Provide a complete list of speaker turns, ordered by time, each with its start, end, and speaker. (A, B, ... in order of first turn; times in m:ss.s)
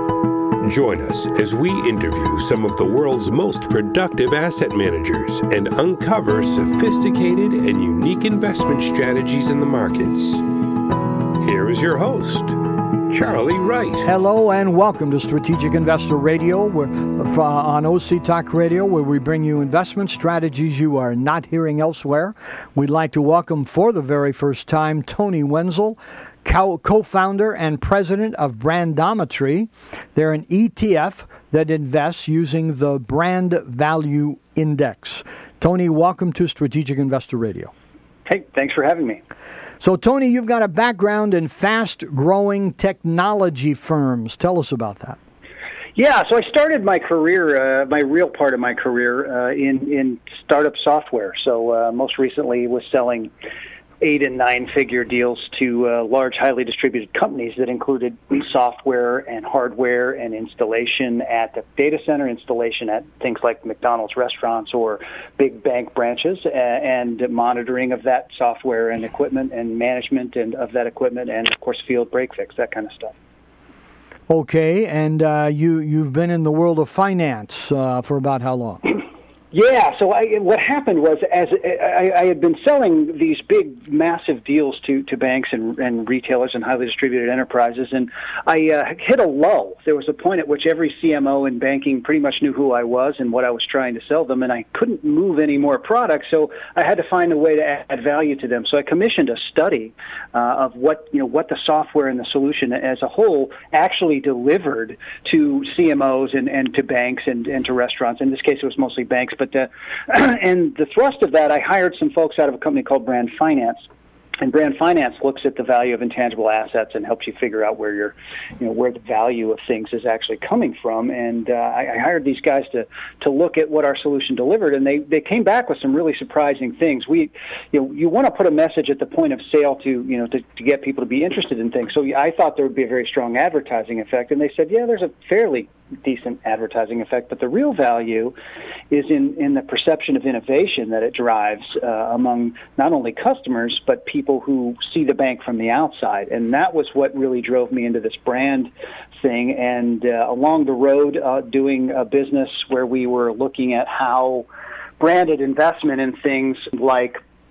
0:00.6-0:10.4 A
0:11.4-0:14.1 A
0:14.0-0:37.7 B
0:38.3-0:39.2 C
0:39.8-0:45.2 B
0:46.0-0:53.3 C
0:54.0-1:13.2 C
1:14.3-1:18.8 B
1:19.5-1:53.8 C
1:54.4-2:18.3 C
2:18.9-2:34.5 C
2:35.0-2:37.2 C